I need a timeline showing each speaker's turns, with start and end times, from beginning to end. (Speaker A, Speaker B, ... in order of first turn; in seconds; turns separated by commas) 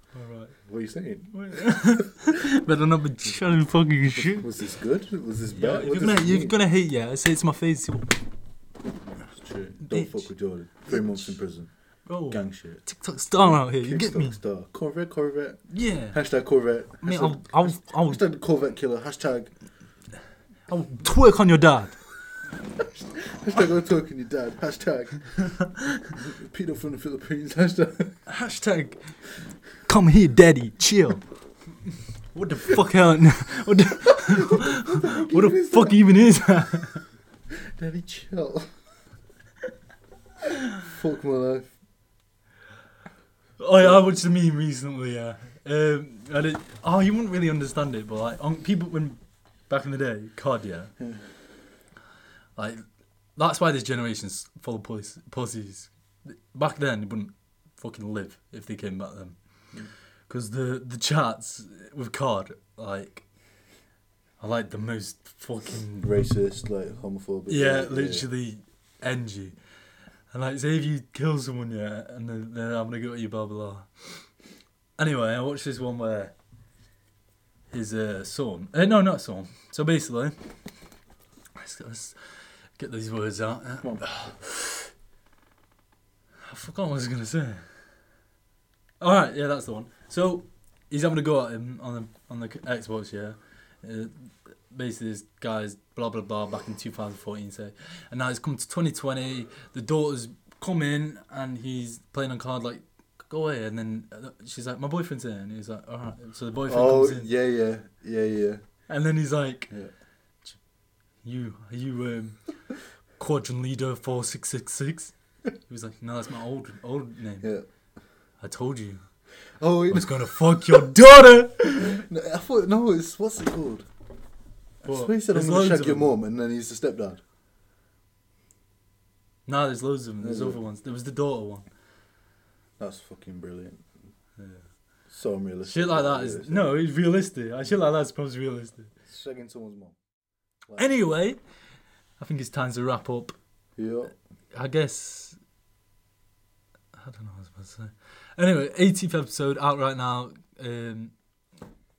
Speaker A: 0.1-0.6, Speaker B: 0.5-2.0, Speaker A: 1.3-4.5, Speaker B: 4.2-6.6, Speaker A: 5.5-8.2, Speaker B: 9.0-19.5, Speaker A: 9.9-10.3, Speaker A: 10.8-11.3, Speaker A: 12.1-14.4, Speaker A: 15.7-16.2, Speaker A: 17.0-18.2, Speaker A: 20.7-22.0, Speaker B: 23.3-28.2, Speaker A: 28.3-29.2, Speaker A: 29.8-31.2, Speaker A: 32.3-37.0, Speaker B: 34.2-36.0, Speaker B: 37.5-38.8, Speaker B: 40.8-41.7, Speaker A: 43.6-50.9, Speaker B: 43.8-44.1, Speaker B: 51.0-51.3, Speaker A: 52.6-59.4, Speaker A: 60.3-63.3, Speaker A: 64.4-66.1, Speaker B: 66.0-68.3, Speaker A: 67.5-69.6, Speaker A: 70.3-74.2, Speaker A: 75.0-76.3, Speaker A: 77.7-80.4, Speaker A: 81.5-84.8, Speaker B: 83.8-84.3, Speaker A: 86.4-87.7, Speaker A: 89.0-107.3, Speaker B: 106.7-108.6, Speaker A: 108.9-109.7, Speaker A: 111.2-112.5, Speaker A: 113.2-117.5, Speaker B: 117.4-117.7, Speaker A: 118.4-119.0, Speaker B: 119.6-120.8, Speaker A: 119.9-122.0, Speaker B: 121.8-123.9, Speaker A: 124.8-126.1, Speaker B: 124.8-127.2, Speaker A: 129.5-131.7, Speaker B: 130.2-130.6, Speaker B: 132.8-133.9, Speaker A: 134.4-134.7, Speaker B: 135.1-136.8, Speaker A: 135.6-138.9, Speaker B: 139.0-140.0, Speaker A: 140.8-141.4, Speaker A: 142.2-143.4, Speaker B: 143.8-144.1, Speaker A: 144.5-145.4, Speaker A: 146.9-151.1